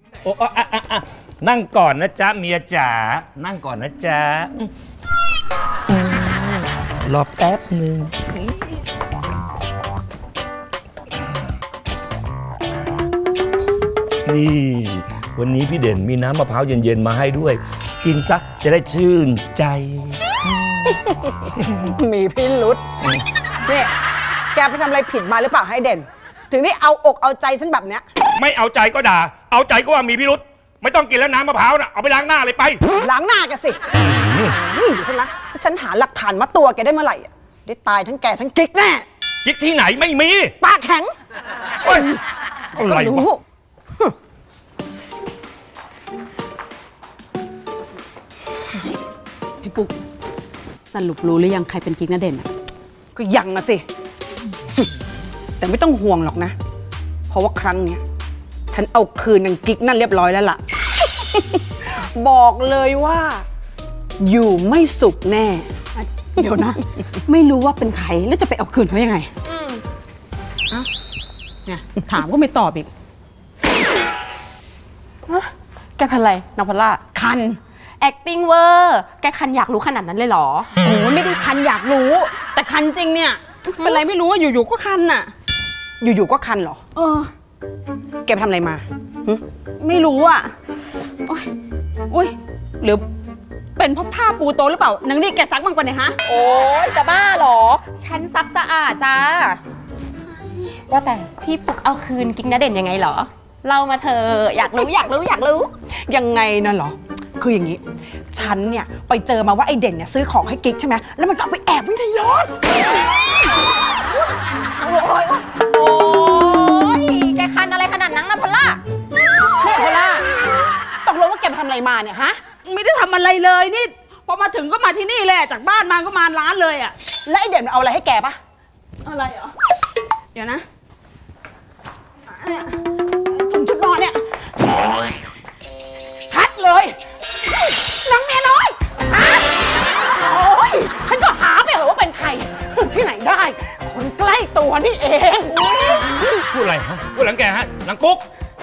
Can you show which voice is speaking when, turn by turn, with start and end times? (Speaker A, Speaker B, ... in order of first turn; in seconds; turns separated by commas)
Speaker A: 0.2-4.7, Speaker A: 5.9-8.5, Speaker A: 14.2-20.9, Speaker B: 21.8-22.8, Speaker B: 23.7-23.9, Speaker B: 24.5-28.0, Speaker A: 28.3-32.8, Speaker B: 33.0-33.8, Speaker B: 34.5-39.0, Speaker A: 39.4-40.5, Speaker B: 40.6-41.1, Speaker A: 41.8-42.1, Speaker A: 42.7-43.2, Speaker B: 42.8-43.4, Speaker C: 49.6-50.0, Speaker C: 50.9-52.5, Speaker B: 53.1-53.8, Speaker B: 55.6-56.5, Speaker B: 57.3-58.0, Speaker B: 58.7-60.6, Speaker B: 61.4-63.4, Speaker B: 64.2-65.7, Speaker C: 66.0-69.3, Speaker B: 66.4-66.7, Speaker D: 69.5-69.8, Speaker C: 71.7-72.9, Speaker D: 75.3-77.0, Speaker C: 77.2-77.6, Speaker D: 78.0-80.7, Speaker C: 80.8-85.3, Speaker B: 86.0-86.8, Speaker C: 87.0-87.3, Speaker B: 88.2-88.8, Speaker C: 89.8-90.5, Speaker C: 92.1-93.0, Speaker C: 93.8-96.2, Speaker D: 96.2-99.6, Speaker D: 100.9-105.7, Speaker B: 106.1-107.8, Speaker B: 108.3-112.5, Speaker D: 115.2-118.8, Speaker B: 119.6-120.2, Speaker B: 121.0-122.4, Speaker C: 122.6-126.9, Speaker B: 127.2-128.4, Speaker C: 129.1-129.5, Speaker C: 130.3-130.6, Speaker B: 133.3-134.2, Speaker B: 136.3-137.0, Speaker B: 137.8-139.4, Speaker B: 140.2-146.2, Speaker A: 146.5-148.2